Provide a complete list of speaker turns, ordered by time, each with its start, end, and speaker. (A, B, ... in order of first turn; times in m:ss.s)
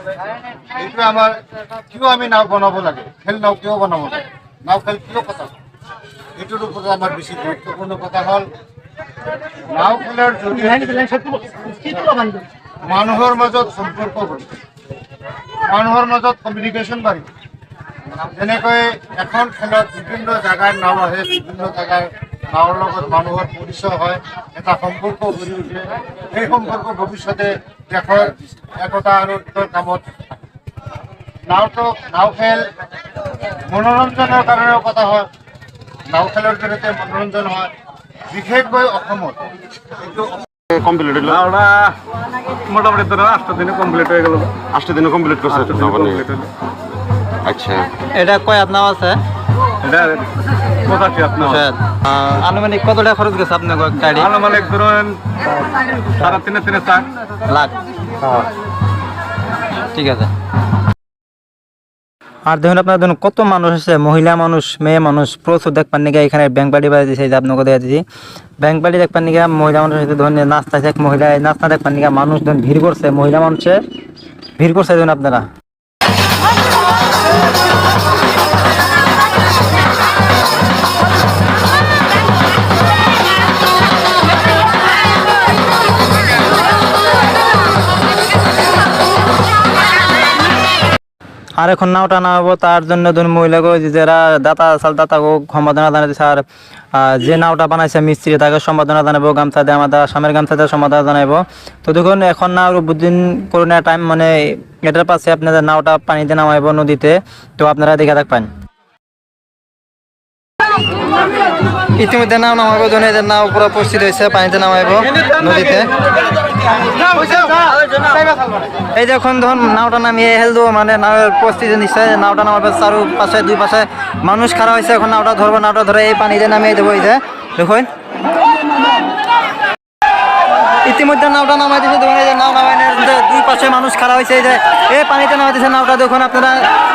0:00.7-0:01.4 A
0:01.9-0:05.5 A
0:06.4-0:08.5 A
0:09.7-0:11.2 A
0:11.9-0:12.2 A
0:12.8-0:14.5 A
0:15.7-0:17.3 A
0:18.2-0:30.1 A
0:31.5-0:32.6 A
0:33.7-0:35.3 A
0:36.1-0:37.7 A
0:38.3-0:39.4 A
0:40.0-0:40.4 A
0:40.7-0:41.4 B
0:41.3-0:42.0 C
0:42.7-0:44.6 C
0:44.7-0:46.3 B
0:45.5-0:46.5 C
0:47.4-0:47.8 B
0:48.1-0:49.2 D
0:49.8-0:50.2 C
0:50.9-0:51.6 C
0:51.4-0:54.3 D
0:54.2-0:55.2 C
0:56.2-0:57.1 C
0:59.9-1:00.3 D
1:02.5-1:08.0 D
1:08.6-1:13.8 D
1:14.6-1:15.5 D
1:31.6-1:36.4 D
1:37.0-1:48.5 D
1:52.0-1:55.9 D
1:57.2-1:57.6 D
1:58.9-2:07.9 D
2:10.8-2:16.7 D